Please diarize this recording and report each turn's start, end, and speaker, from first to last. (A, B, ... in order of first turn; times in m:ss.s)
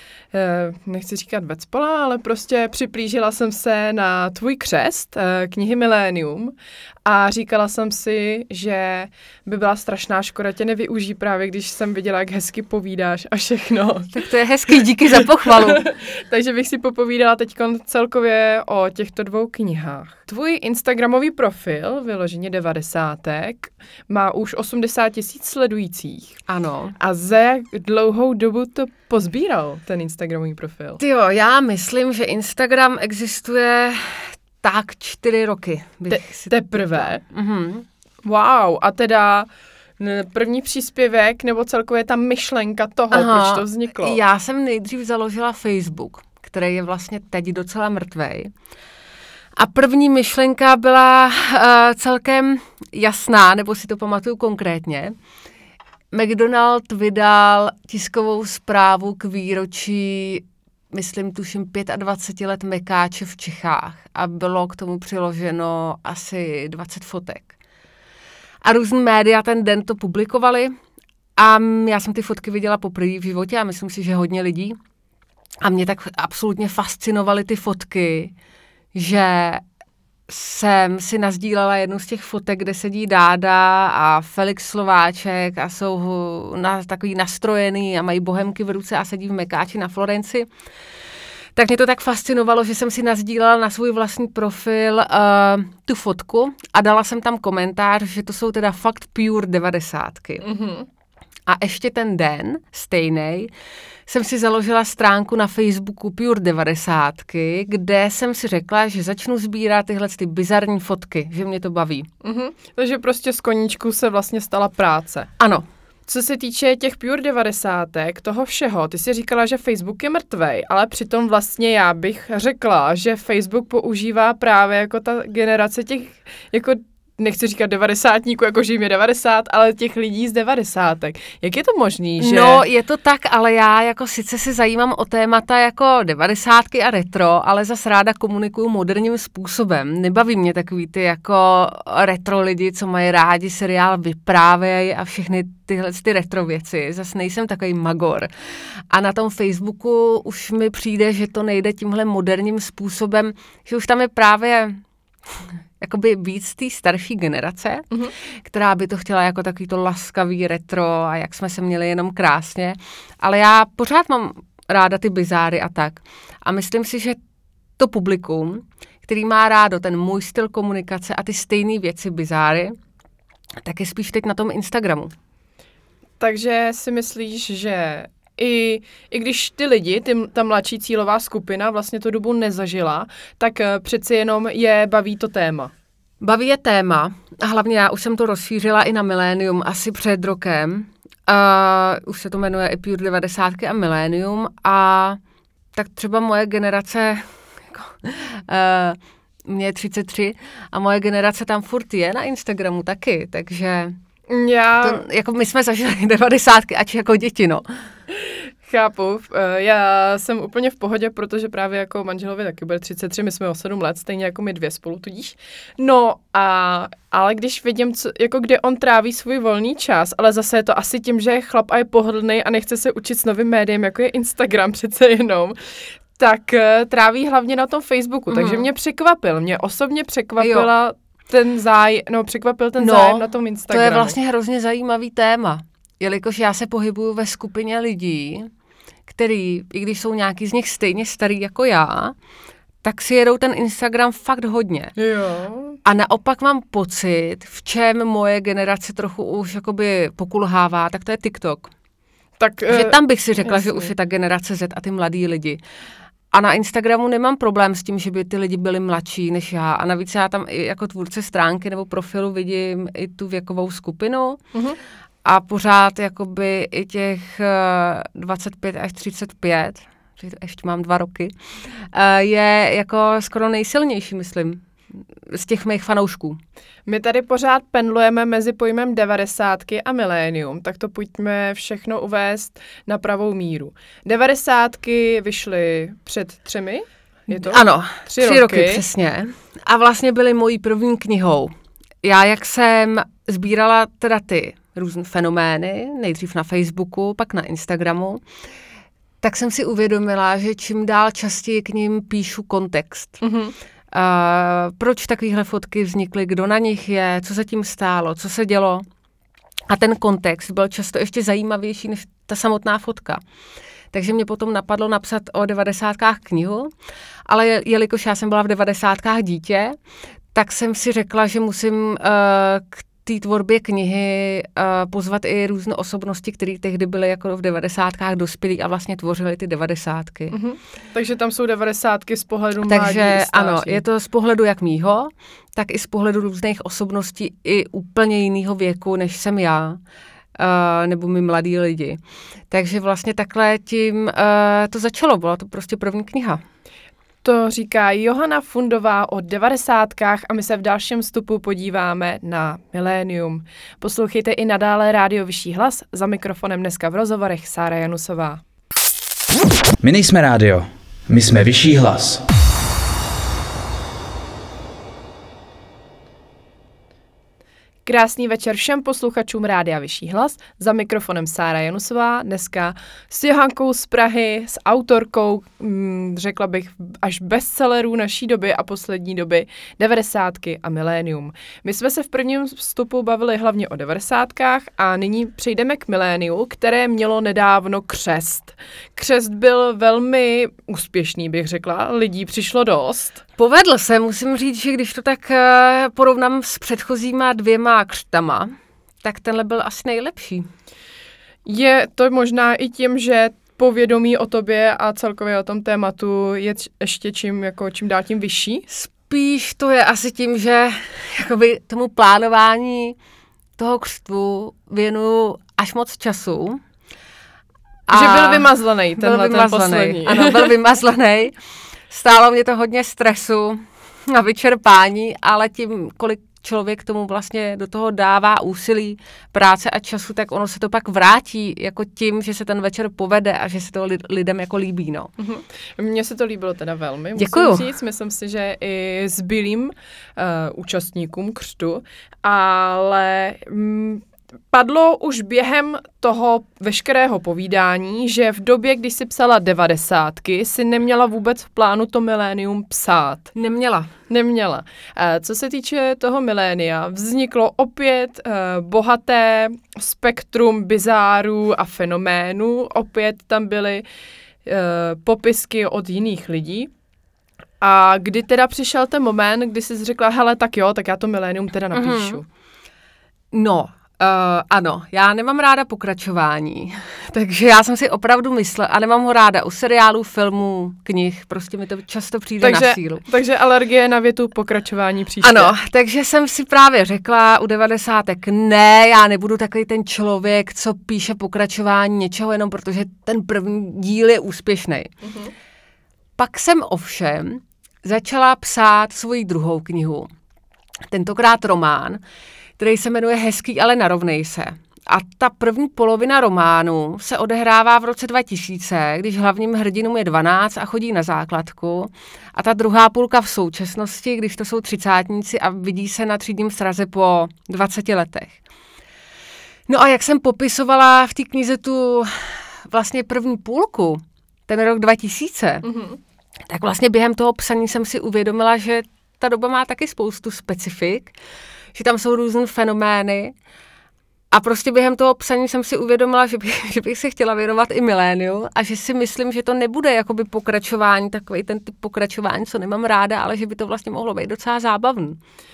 0:00.3-0:06.5 A
0:07.0-0:14.1 A
0:14.1-0:15.8 B
0:15.4-0:26.3 A
0:26.5-0:27.0 B
0:27.0-0:31.0 A
0:31.0-0:37.8 B
0:36.1-0:37.2 A
0:38.2-0:44.2 A
0:43.1-0:48.5 B
0:49.6-0:55.1 B
0:56.1-1:07.5 B
1:08.6-1:10.7 B
1:11.4-1:14.8 B
1:15.6-1:18.3 B
1:18.9-1:19.6 B
1:20.3-1:30.5 B
1:31.6-1:40.5 B
1:40.4-1:40.9 A
1:41.5-1:43.5 B
1:44.1-1:52.1 B
1:52.2-1:55.3 A
1:55.4-1:55.7 B
1:56.1-2:12.6 A
2:12.2-2:28.3 B
2:28.9-2:37.9 B
2:38.4-2:47.2 B
2:47.8-2:52.8 B
2:53.6-2:55.1 B
2:56.2-3:05.7 A
3:06.2-3:15.2 B
3:15.7-3:24.0 B
3:24.3-3:25.0 A
3:24.8-3:27.7 B
3:28.2-3:45.6 A
3:46.2-3:54.2 A
3:48.3-3:48.7 B
3:50.4-3:50.7 B
3:52.8-3:58.5 B
3:59.1-4:02.2 B
4:02.8-4:04.9 B
4:05.0-4:05.8 A
4:05.8-4:11.7 B
4:12.4-4:13.9 A
4:12.7-4:15.6 B
4:16.3-4:24.4 B
4:25.2-4:34.6 B
4:35.2-4:36.4 B
4:36.9-4:48.8 A
4:47.3-4:58.2 B
4:59.2-5:03.2 B
5:03.2-5:03.5 A
5:03.9-5:08.8 B
5:09.7-5:13.2 B
5:13.9-5:16.7 B
5:17.2-5:19.8 B
5:20.3-5:30.4 B
5:30.3-5:33.8 A
5:32.6-5:39.8 B
5:40.4-5:46.4 B
5:47.2-5:58.4 A
5:59.8-6:02.2 C
6:07.8-6:33.2 A
6:33.4-6:40.5 B
6:41.4-6:48.7 A
6:48.7-6:53.0 B
6:53.6-6:56.6 B
6:57.9-6:58.4 B
6:57.9-7:00.5 A
6:59.0-7:01.3 B
7:01.9-7:15.1 B
7:15.2-7:33.3 A
7:17.2-7:17.6 B
7:33.3-7:33.9 B
7:34.1-7:43.8 A
7:44.4-7:46.7 A
7:47.6-7:52.2 A
7:51.7-7:52.2 B
7:53.3-8:03.0 B
8:02.4-8:05.5 A
8:05.2-8:14.9 B
8:15.0-8:15.3 A
8:16.2-8:20.1 B
8:20.9-8:22.0 B
8:22.6-8:38.4 B
8:39.7-8:45.7 B
8:45.6-8:46.0 A
8:46.5-8:51.1 B
8:51.7-8:53.3 B
8:54.3-9:05.2 B